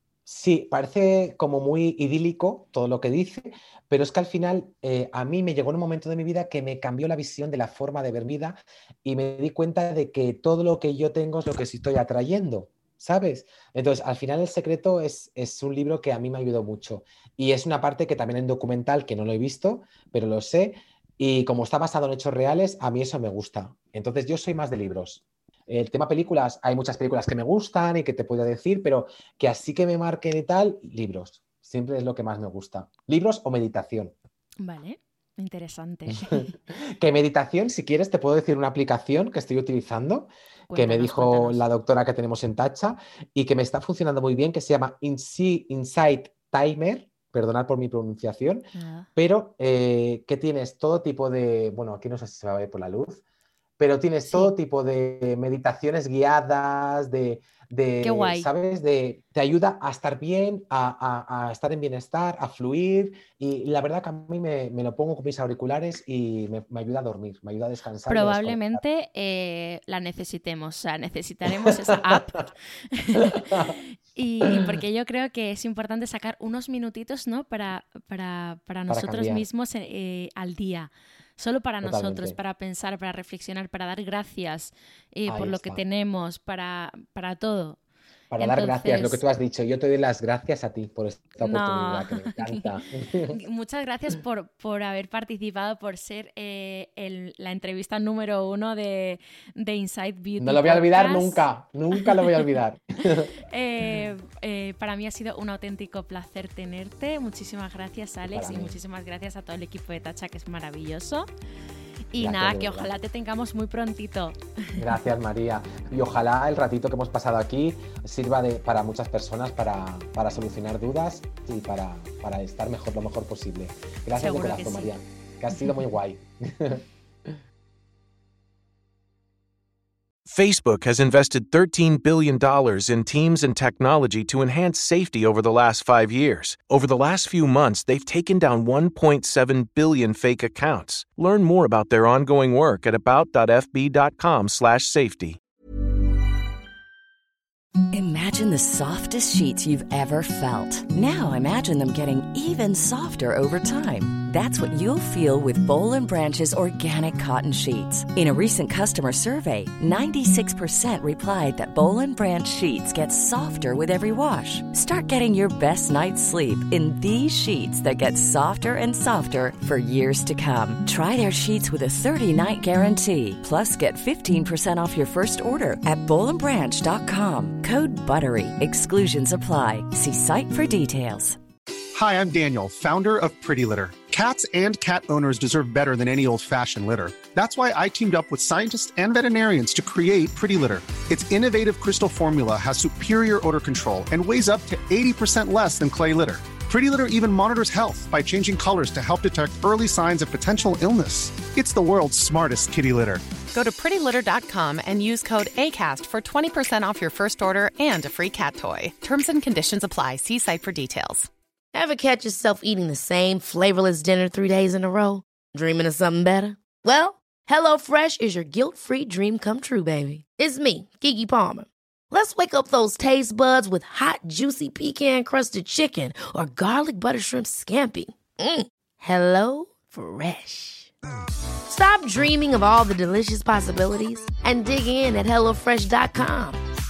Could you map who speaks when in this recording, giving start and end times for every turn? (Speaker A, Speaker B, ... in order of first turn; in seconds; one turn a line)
Speaker A: 0.2-34.1
Speaker B: 34.6-36.5
Speaker A: 36.1-53.2
Speaker B: 40.7-41.6
Speaker B: 48.7-49.1
Speaker A: 53.8-68.8
Speaker B: 58.0-58.5
Speaker B: 68.1-87.8
Speaker A: 71.5-72.2
Speaker A: 73.2-73.8
Speaker A: 78.9-79.4
Speaker A: 81.8-82.4
Speaker A: 85.3-85.8
Speaker A: 88.3-93.4
Speaker B: 88.4-89.2
Speaker B: 91.4-92.7
Speaker B: 93.3-101.4
Speaker A: 100.4-103.3
Speaker B: 102.0-102.4
Speaker B: 103.4-111.3
Speaker A: 108.3-108.8
Speaker B: 112.1-114.3
Speaker A: 112.2-112.9
Speaker A: 114.8-127.4
Speaker B: 124.1-124.9
Speaker B: 125.6-125.8
Speaker C: 130.2-145.4
Speaker D: 147.9-181.4
Speaker E: 181.9-203.3
Speaker F: 203.5-211.3
Speaker G: 211.7-230.9
Speaker G: 231.7-236.6